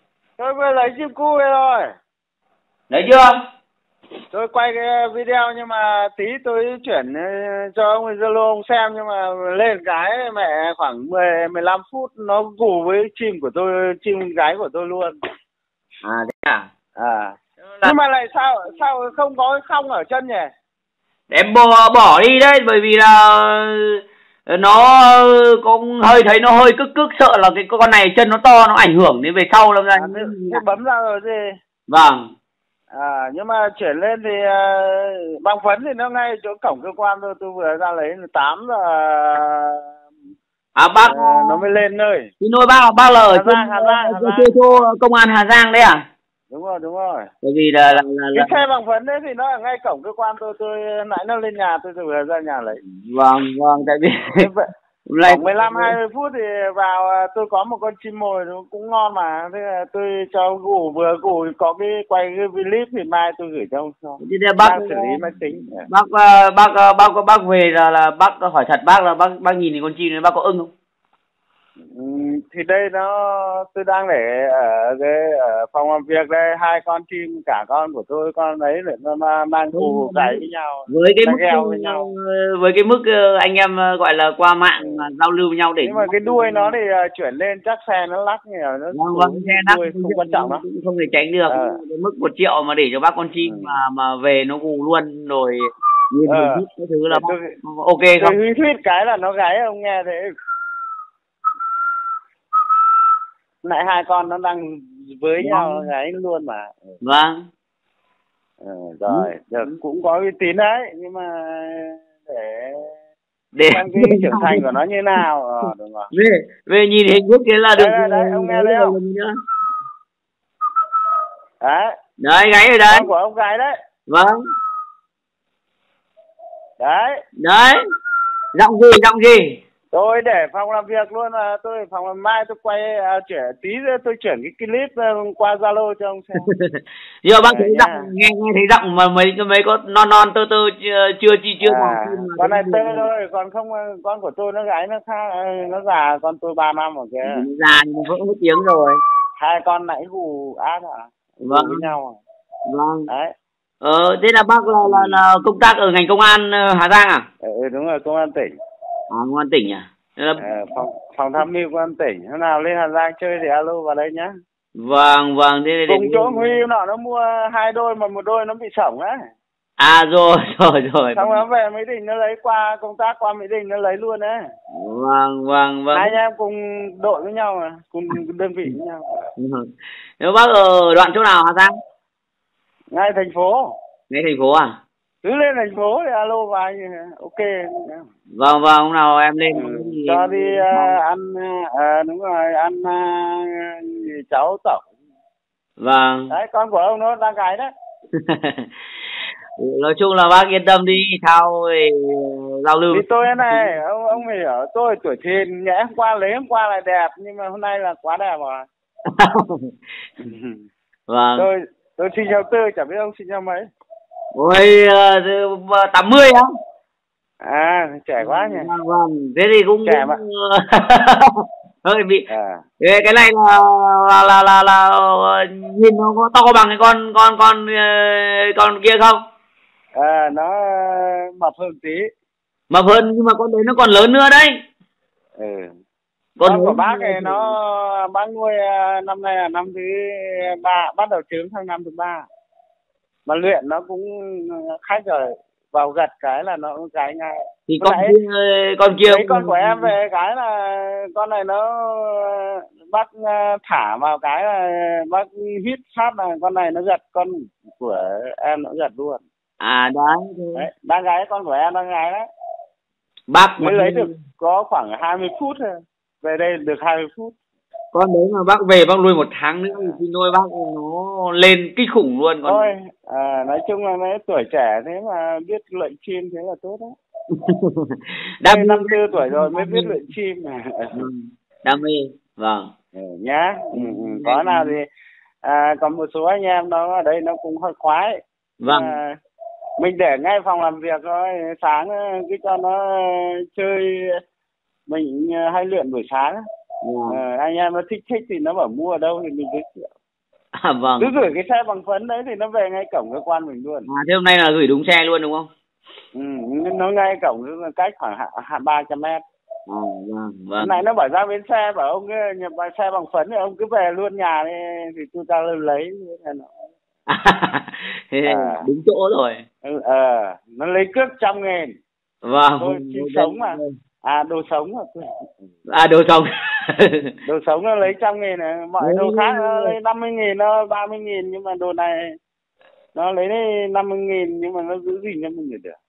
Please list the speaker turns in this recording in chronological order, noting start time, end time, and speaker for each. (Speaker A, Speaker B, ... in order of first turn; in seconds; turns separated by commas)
Speaker A: 0.4-1.9, Speaker B: 2.9-3.3, Speaker A: 4.3-15.1, Speaker B: 16.0-16.7, Speaker A: 17.0-20.5, Speaker B: 21.3-30.6, Speaker A: 29.9-31.5, Speaker B: 31.9-32.2, Speaker A: 32.9-39.9, Speaker B: 40.8-41.6, Speaker A: 41.0-42.3, Speaker B: 42.4-46.0, Speaker A: 43.3-44.5, Speaker A: 46.5-47.3, Speaker B: 47.4-48.6, Speaker A: 47.9-52.8, Speaker B: 52.9-54.5, Speaker A: 54.4-54.6, Speaker B: 55.1-56.0, Speaker A: 55.2-65.9, Speaker B: 64.2-70.7, Speaker A: 71.9-82.1, Speaker B: 79.7-86.8, Speaker A: 84.8-85.1, Speaker A: 85.8-90.7, Speaker B: 88.9-98.4, Speaker A: 91.5-91.8, Speaker A: 93.4-93.8, Speaker A: 96.3-97.6, Speaker A: 98.2-100.3, Speaker A: 103.6-106.9, Speaker B: 105.4-105.9, Speaker B: 107.0-107.4, Speaker A: 108.6-112.9, Speaker B: 109.1-109.8, Speaker B: 113.5-114.7, Speaker A: 113.7-116.1, Speaker B: 116.1-119.3, Speaker A: 117.8-119.0, Speaker A: 121.6-121.9, Speaker B: 122.2-123.1, Speaker A: 122.9-123.7, Speaker B: 124.1-124.4, Speaker A: 126.8-127.2, Speaker B: 127.4-127.8, Speaker B: 128.6-129.6, Speaker A: 129.9-136.4, Speaker B: 136.4-143.1, Speaker A: 137.4-138.1, Speaker A: 141.6-147.4, Speaker B: 147.3-149.0, Speaker A: 149.4-152.2, Speaker B: 151.4-151.9, Speaker B: 152.7-153.1, Speaker B: 153.8-157.3, Speaker A: 154.8-155.2, Speaker A: 157.4-158.5, Speaker B: 159.1-160.4, Speaker A: 160.4-164.3, Speaker B: 164.8-166.6, Speaker A: 165.9-169.2, Speaker B: 169.8-171.4, Speaker A: 171.2-174.4, Speaker B: 174.7-176.2, Speaker A: 175.9-179.0, Speaker B: 179.4-179.7, Speaker B: 180.2-181.7, Speaker A: 182.9-183.8, Speaker B: 184.1-184.7, Speaker A: 185.2-188.1, Speaker B: 188.3-191.0, Speaker A: 189.5-194.9, Speaker B: 195.8-196.3, Speaker A: 196.3-197.7, Speaker B: 198.1-198.7, Speaker B: 199.6-203.7, Speaker A: 202.9-208.7, Speaker B: 209.1-209.7, Speaker A: 210.2-210.6, Speaker B: 211.1-211.5, Speaker A: 211.4-213.6, Speaker B: 214.3-216.4, Speaker A: 217.4-218.7, Speaker B: 218.2-222.2, Speaker A: 219.8-220.2, Speaker A: 222.3-222.6, Speaker B: 222.8-229.2, Speaker A: 230.0-232.1, Speaker B: 232.7-234.5, Speaker A: 235.4-235.7, Speaker B: 236.4-237.6, Speaker A: 236.4-242.3, Speaker A: 243.3-248.2, Speaker B: 247.7-249.9, Speaker A: 249.1-259.2, Speaker B: 259.6-260.7, Speaker A: 260.6-262.2, Speaker B: 263.3-264.2, Speaker A: 263.6-267.3, Speaker B: 267.9-272.7, Speaker A: 269.7-270.0, Speaker A: 272.5-276.9, Speaker B: 277.3-280.1, Speaker A: 278.5-280.9, Speaker B: 280.9-282.7, Speaker A: 282.9-284.8, Speaker B: 283.7-284.8, Speaker A: 285.4-289.1, Speaker B: 288.6-289.0, Speaker A: 289.8-294.2, Speaker A: 294.9-296.4, Speaker B: 296.8-297.2, Speaker A: 297.1-299.9, Speaker B: 300.6-301.3, Speaker A: 301.0-303.9, Speaker B: 303.9-305.5, Speaker A: 306.1-309.2, Speaker B: 309.7-310.8, Speaker A: 310.6-316.5, Speaker B: 317.1-319.4, Speaker A: 318.3-318.7, Speaker A: 319.6-321.7, Speaker B: 322.2-323.7, Speaker A: 322.6-325.0, Speaker B: 325.7-327.1, Speaker A: 327.2-332.1, Speaker B: 328.8-329.8, Speaker A: 332.9-335.8